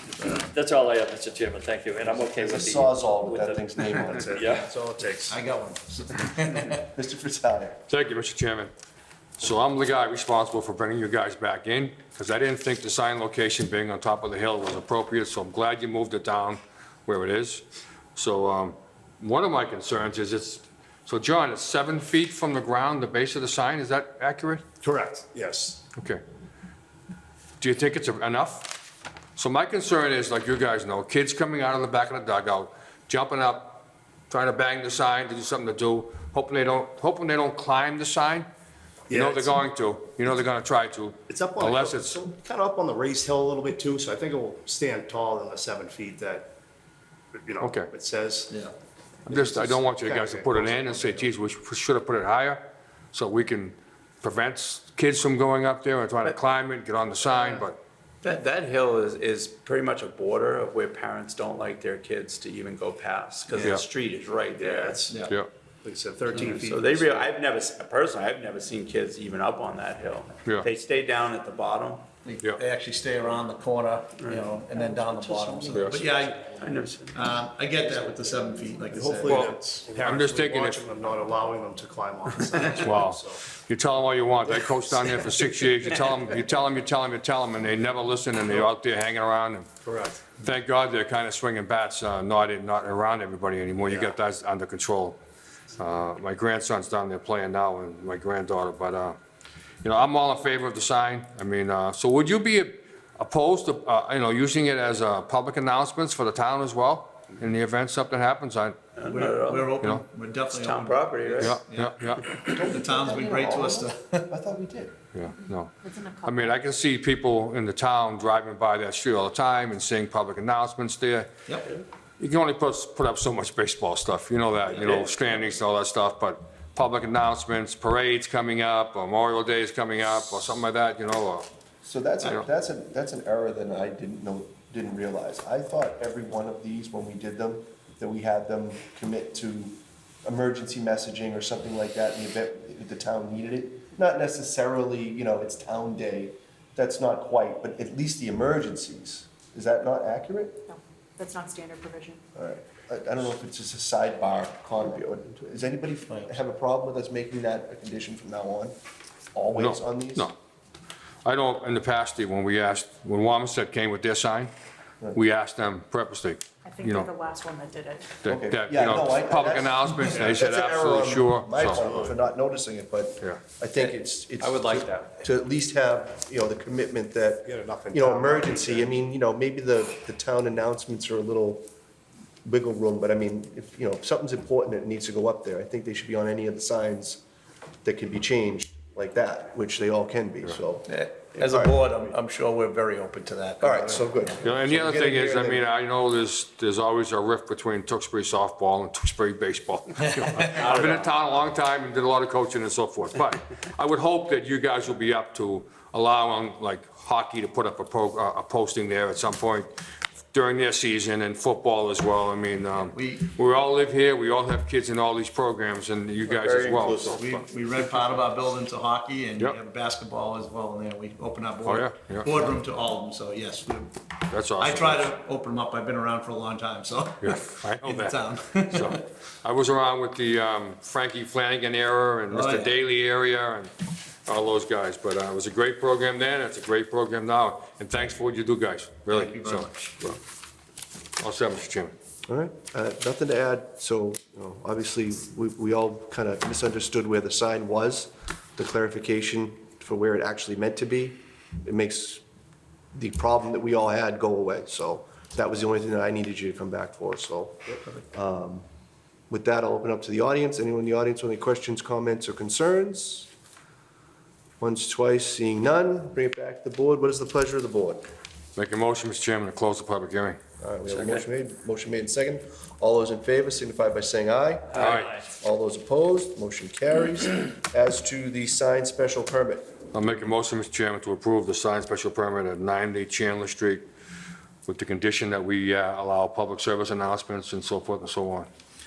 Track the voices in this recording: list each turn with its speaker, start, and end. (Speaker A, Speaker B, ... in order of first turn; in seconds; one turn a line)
Speaker A: 0.4-4.7
Speaker B: 2.1-4.6
Speaker C: 4.2-5.4
Speaker D: 5.3-6.8
Speaker B: 6.8-7.8
Speaker E: 7.9-8.7
Speaker E: 9.4-24.6
Speaker C: 24.8-25.8
Speaker E: 26.0-26.2
Speaker E: 27.6-38.5
Speaker C: 39.1-39.6
Speaker E: 39.1-42.2
Speaker C: 41.3-46.5
Speaker C: 47.3-48.5
Speaker E: 47.6-47.9
Speaker C: 49.3-51.3
Speaker E: 49.3-57.8
Speaker F: 57.4-57.6
Speaker F: 58.2-65.1
Speaker C: 63.5-63.8
Speaker C: 64.6-65.2
Speaker D: 65.1-65.4
Speaker C: 65.8-67.3
Speaker F: 66.5-72.1
Speaker D: 72.2-76.5
Speaker F: 74.2-75.6
Speaker E: 75.7-76.0
Speaker F: 76.4-77.2
Speaker D: 77.1-79.6
Speaker C: 78.9-83.4
Speaker E: 79.3-80.8
Speaker E: 82.7-89.7
Speaker C: 89.8-90.3
Speaker E: 90.3-95.2
Speaker E: 95.8-99.2
Speaker E: 99.8-108.8
Speaker F: 109.0-109.8
Speaker D: 109.1-114.3
Speaker F: 110.5-111.6
Speaker E: 111.4-112.3
Speaker B: 112.5-115.0
Speaker E: 115.2-121.3
Speaker G: 115.8-116.6
Speaker D: 121.5-121.7
Speaker E: 122.2-131.5
Speaker F: 124.8-125.1
Speaker B: 131.8-150.6
Speaker G: 150.7-152.2
Speaker B: 152.3-158.8
Speaker D: 156.1-156.5
Speaker B: 159.3-160.3
Speaker E: 159.6-160.3
Speaker E: 161.2-164.5
Speaker E: 165.1-167.1
Speaker G: 166.7-168.3
Speaker E: 168.2-171.8
Speaker B: 168.3-181.7
Speaker C: 171.7-172.2
Speaker F: 173.8-175.2
Speaker C: 177.4-179.0
Speaker B: 182.4-187.2
Speaker B: 187.8-191.8
Speaker D: 190.9-194.3
Speaker B: 193.6-195.6
Speaker E: 194.4-209.7
Speaker D: 200.2-200.6
Speaker F: 200.5-201.2
Speaker E: 210.3-217.4
Speaker D: 212.9-213.3
Speaker F: 216.2-217.2
Speaker D: 216.9-223.9
Speaker E: 221.7-222.3
Speaker E: 224.3-225.1
Speaker D: 224.6-229.0
Speaker E: 227.2-233.7
Speaker D: 232.3-232.8
Speaker E: 234.3-240.2
Speaker D: 239.1-240.2
Speaker E: 241.2-241.9
Speaker B: 242.3-252.2
Speaker B: 252.9-258.6
Speaker B: 259.3-263.3
Speaker B: 264.6-268.0
Speaker E: 268.6-270.4
Speaker B: 270.6-279.7
Speaker E: 274.8-275.2
Speaker E: 279.9-283.8
Speaker E: 284.7-288.5